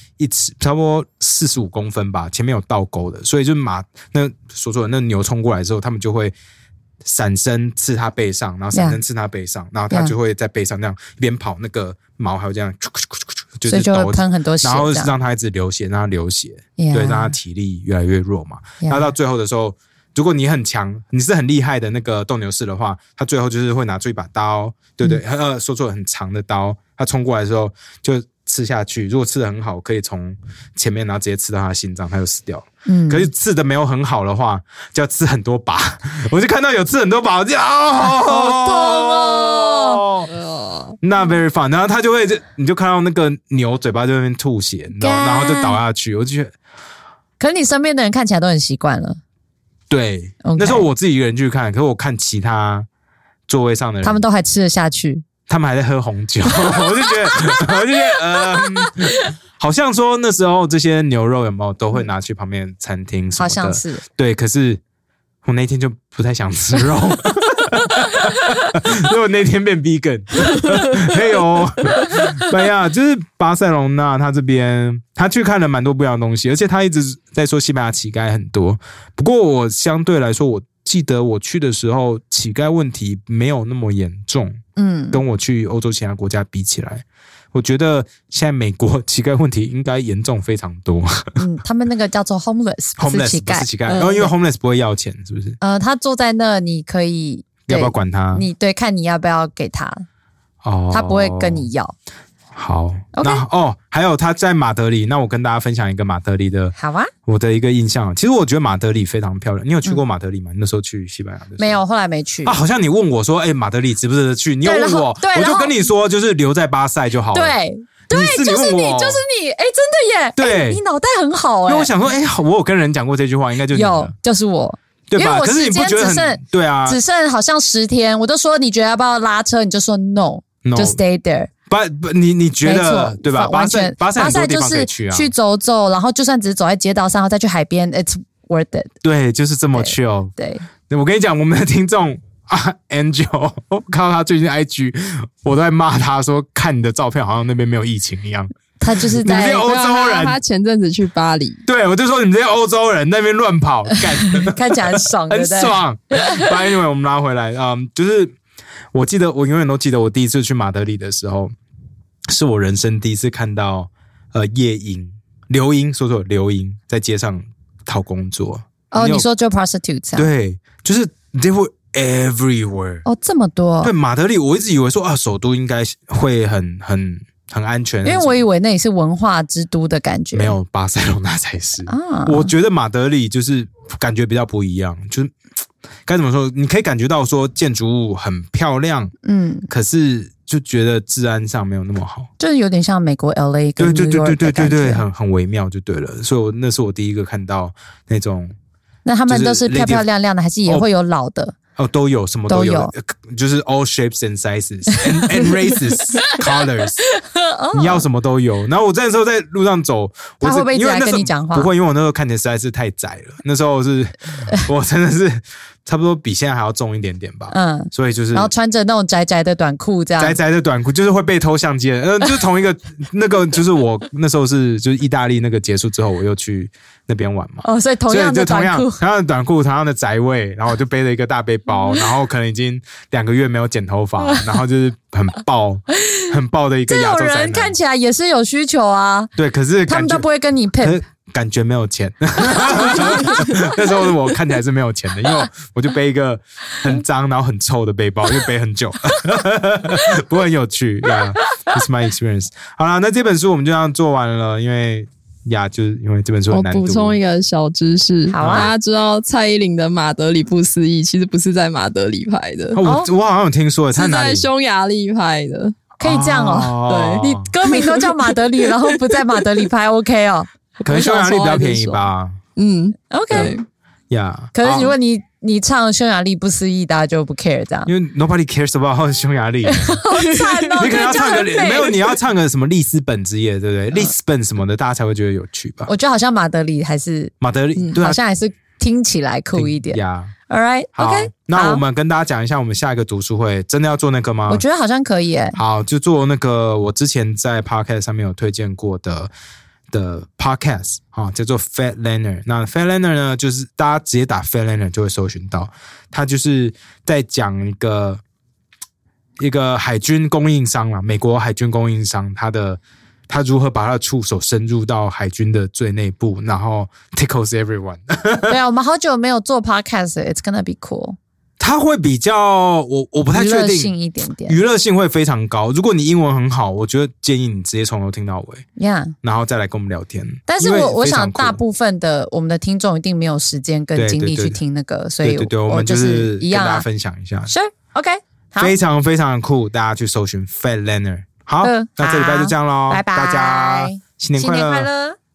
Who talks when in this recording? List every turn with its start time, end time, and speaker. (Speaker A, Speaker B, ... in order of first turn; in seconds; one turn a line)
Speaker A: 0.2-6.3
Speaker A: 7.0-40.3
Speaker B: 8.7-9.0
Speaker B: 13.7-15.1
Speaker B: 16.8-17.4
Speaker B: 18.8-19.1
Speaker B: 32.9-33.3
Speaker B: 38.0-40.0
Speaker C: 40.3-41.0
Speaker A: 41.0-46.5
Speaker B: 45.0-45.8
Speaker B: 47.4-49.2
Speaker A: 49.9-52.9
Speaker B: 50.4-50.9
Speaker A: 53.5-54.2
Speaker B: 54.0-55.2
Speaker A: 55.5-64.8
Speaker B: 56.6-59.3
Speaker B: 63.4-64.0
Speaker A: 65.4-91.4
Speaker B: 68.1-68.6
Speaker B: 84.8-85.2
Speaker B: 91.4-94.3
Speaker A: 93.0-95.6
Speaker B: 95.6-100.1
Speaker A: 97.7-98.5
Speaker A: 100.6-101.7
Speaker B: 100.9-102.0
Speaker A: 102.5-106.8
Speaker B: 103.2-103.5
Speaker B: 106.8-107.1
Speaker A: 107.3-111.8
Speaker B: 111.6-112.6
Speaker A: 112.5-117.5
Speaker B: 114.6-115.9
Speaker B: 117.3-121.9
Speaker A: 118.1-119.2
Speaker A: 120.4-120.8
Speaker A: 121.7-124.1
Speaker B: 123.7-131.5
Speaker A: 125.1-127.0
Speaker A: 130.6-131.0
Speaker A: 131.7-135.3
Speaker B: 132.6-138.9
Speaker A: 139.0-140.3
Speaker B: 139.8-140.6
Speaker A: 140.9-150.4
Speaker B: 148.8-149.7
Speaker C: 149.4-151.6
Speaker A: 151.7-158.3
Speaker B: 154.4-156.4
Speaker A: 158.9-161.5
Speaker A: 162.3-169.3
Speaker B: 168.9-170.3
Speaker A: 170.2-173.0
Speaker B: 173.1-173.9
Speaker A: 173.8-178.4
Speaker B: 178.0-180.6
Speaker A: 180.3-185.3
Speaker B: 181.9-182.5
Speaker A: 186.1-189.1
Speaker B: 189.2-189.7
Speaker A: 189.7-192.3
Speaker B: 192.4-195.0
Speaker A: 193.8-198.5
Speaker B: 199.1-201.6
Speaker A: 199.3-200.1
Speaker A: 201.8-207.0
Speaker B: 202.5-202.9
Speaker B: 207.1-208.1
Speaker A: 207.7-218.5
Speaker B: 210.4-211.7
Speaker B: 217.5-220.4
Speaker A: 220.2-237.8
Speaker B: 227.6-229.0
Speaker B: 236.0-236.3
Speaker B: 236.9-239.3
Speaker A: 239.4-240.2
Speaker B: 239.9-241.0
Speaker A: 240.8-257.2
Speaker B: 242.5-243.6
Speaker C: 256.5-262.8
Speaker B: 258.3-258.8
Speaker A: 258.4-258.7
Speaker A: 262.8-264.5
Speaker B: 262.8-263.1
Speaker C: 263.9-265.8
Speaker B: 266.0-271.6
Speaker A: 266.0-267.5
Speaker C: 266.9-269.6
Speaker A: 270.8-272.4
Speaker C: 270.9-271.9
Speaker C: 272.6-273.6
Speaker B: 273.1-273.6
Speaker A: 274.1-274.9
Speaker B: 274.5-277.9
Speaker A: 277.9-280.0
Speaker B: 279.7-281.9
Speaker C: 280.1-281.5
Speaker A: 280.8-285.9
Speaker B: 285.9-287.3
Speaker A: 287.4-288.2
Speaker B: 288.0-291.8
Speaker A: 289.5-290.3
Speaker A: 291.0-294.6
Speaker B: 294.5-295.6
Speaker A: 295.6-299.3
Speaker A: 299.9-308.2
Speaker A: 309.4-318.6
Speaker B: 318.5-321.2
Speaker A: 321.6-323.9
Speaker B: 323.3-324.6
Speaker A: 324.5-328.6
Speaker B: 328.8-329.1
Speaker A: 329.2-331.6
Speaker B: 330.5-336.9
Speaker A: 334.0-334.6
Speaker A: 335.2-337.5
Speaker B: 337.5-338.8
Speaker A: 338.6-344.9
Speaker B: 341.6-345.2